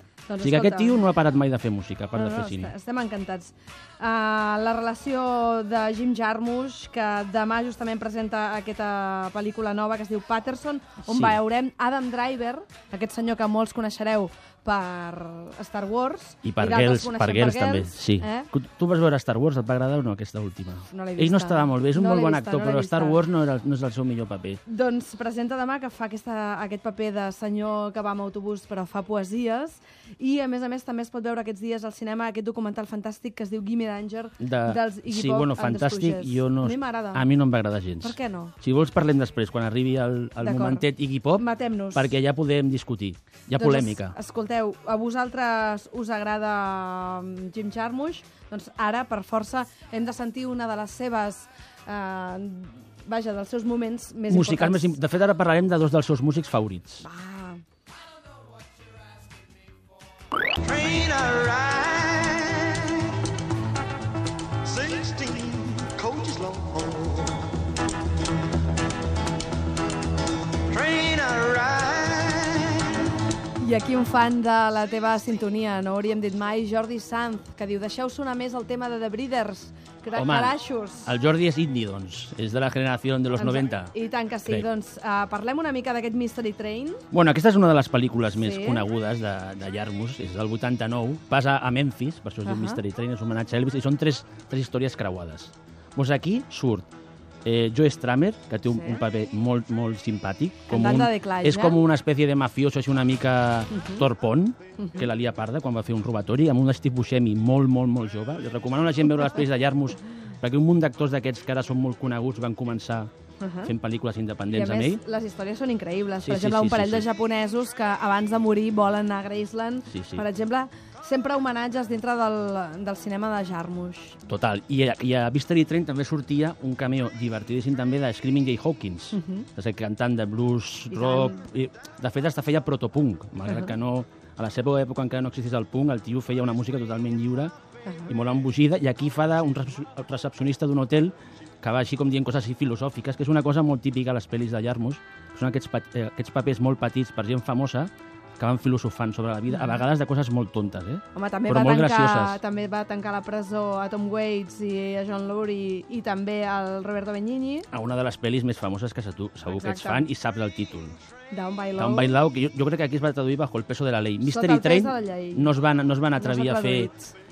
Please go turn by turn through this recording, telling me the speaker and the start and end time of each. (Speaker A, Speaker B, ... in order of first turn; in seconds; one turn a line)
Speaker A: 0.3-1.1
Speaker B: 0.4-2.7
Speaker A: 2.1-18.5
Speaker B: 11.0-11.4
Speaker B: 16.4-24.6
Speaker A: 20.9-23.2
Speaker A: 24.7-37.3
Speaker B: 34.4-44.1
Speaker A: 38.0-38.5
Speaker A: 40.4-42.1
Speaker A: 43.6-55.0
Speaker B: 54.3-57.0
Speaker A: 57.0-57.6
Speaker C: 60.7-63.1
Speaker C: 64.6-67.5
Speaker C: 70.7-72.9
Speaker A: 73.6-81.1
Speaker B: 80.1-83.9
Speaker A: 83.3-87.0
Speaker B: 87.1-96.8
Speaker A: 88.3-88.8
Speaker A: 92.4-92.8
Speaker B: 97.4-113.1
Speaker A: 98.7-99.0
Speaker A: 100.7-101.8
Speaker A: 103.7-104.0
Speaker A: 104.8-105.1
Speaker A: 113.4-113.7
Speaker B: 113.6-115.0
Speaker A: 114.5-124.2
Speaker B: 116.2-117.1
Speaker B: 119.9-120.2
Speaker B: 124.2-137.5
Speaker A: 129.1-129.4
Speaker A: 130.9-131.4
Speaker A: 137.8-138.1
Speaker B: 138.1-152.4
Speaker A: 149.5-149.8
Speaker A: 151.1-157.7
Speaker B: 157.7-161.0
Speaker A: 159.4-160.1
Speaker A: 161.3-162.2
Speaker B: 161.8-166.9
Speaker A: 164.2-165.5
Speaker A: 166.2-167.1